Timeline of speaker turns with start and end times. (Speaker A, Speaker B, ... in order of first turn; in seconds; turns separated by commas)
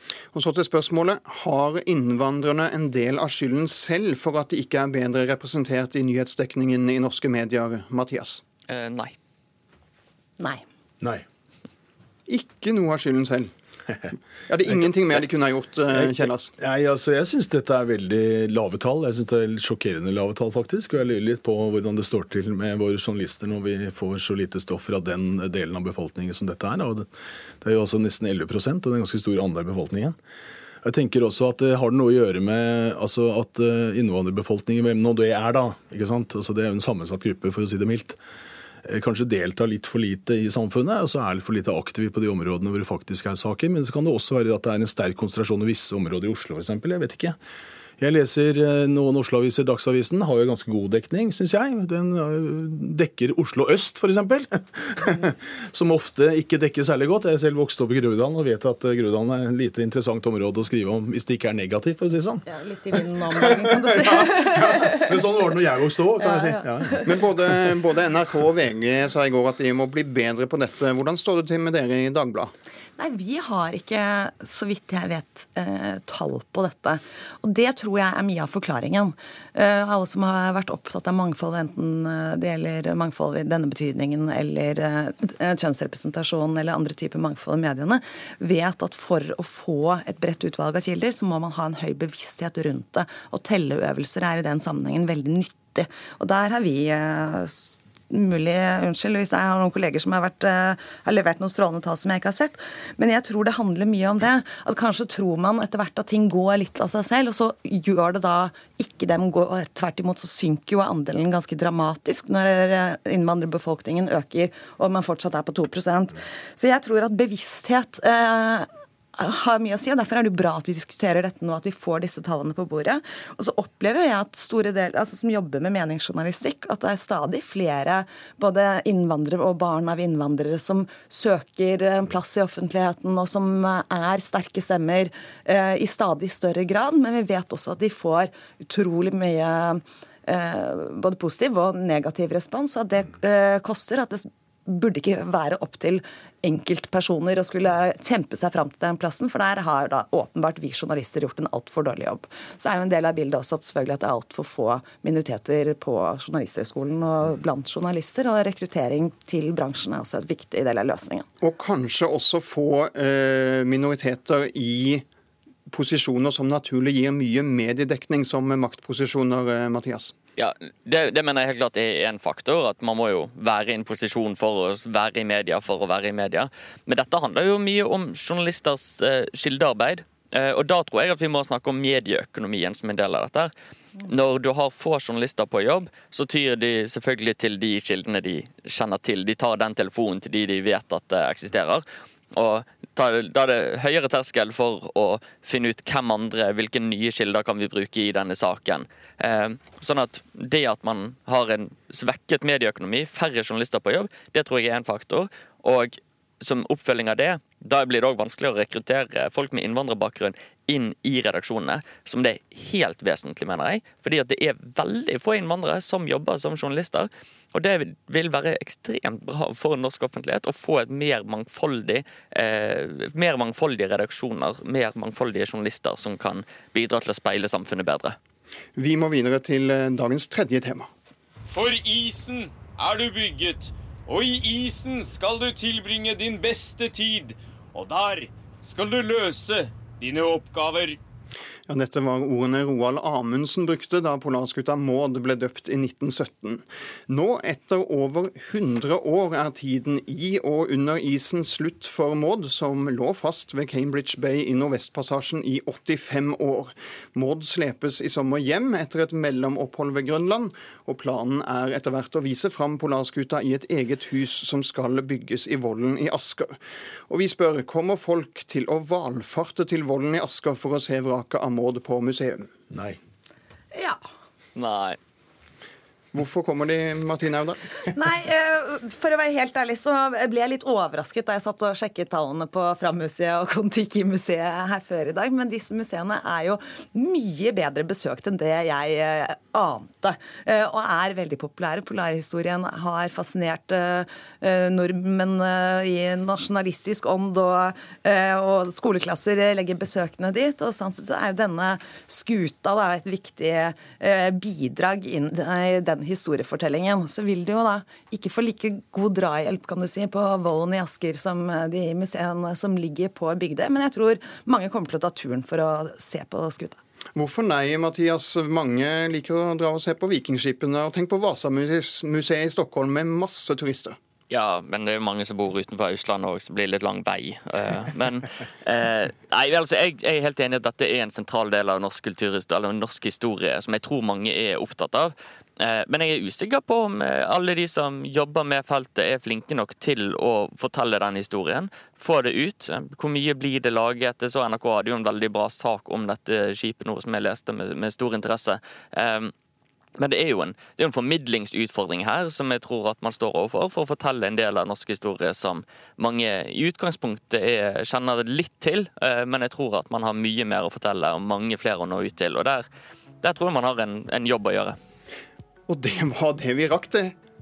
Speaker A: 0.3-8.4, Speaker B: 8.7-9.1, Speaker A: 12.3-13.5, Speaker A: 14.5-16.5, Speaker C: 15.9-27.1, Speaker C: 27.6-30.1, Speaker C: 30.8-38.2, Speaker C: 38.9-47.4, Speaker C: 48.0-62.4, Speaker D: 62.5-65.1, Speaker C: 63.8-67.0, Speaker D: 66.2-67.1, Speaker A: 67.0-72.5, Speaker D: 73.0-161.2, Speaker A: 161.4-165.0, Speaker A: 165.7-170.1, Speaker B: 170.4-183.5, Speaker B: 184.0-228.2, Speaker A: 228.8-230.9, Speaker E: 231.4-241.0, Speaker A: 241.7-272.5, Speaker C: 272.7-273.0, Speaker D: 273.7-274.0, Speaker B: 274.6-275.0, Speaker A: 276.1-277.6, Speaker D: 277.9-316.8, Speaker A: 317.1-324.0, Speaker B: 324.3-349.3, Speaker B: 350.0-362.6, Speaker B: 363.2-364.8, Speaker A: 365.7-367.1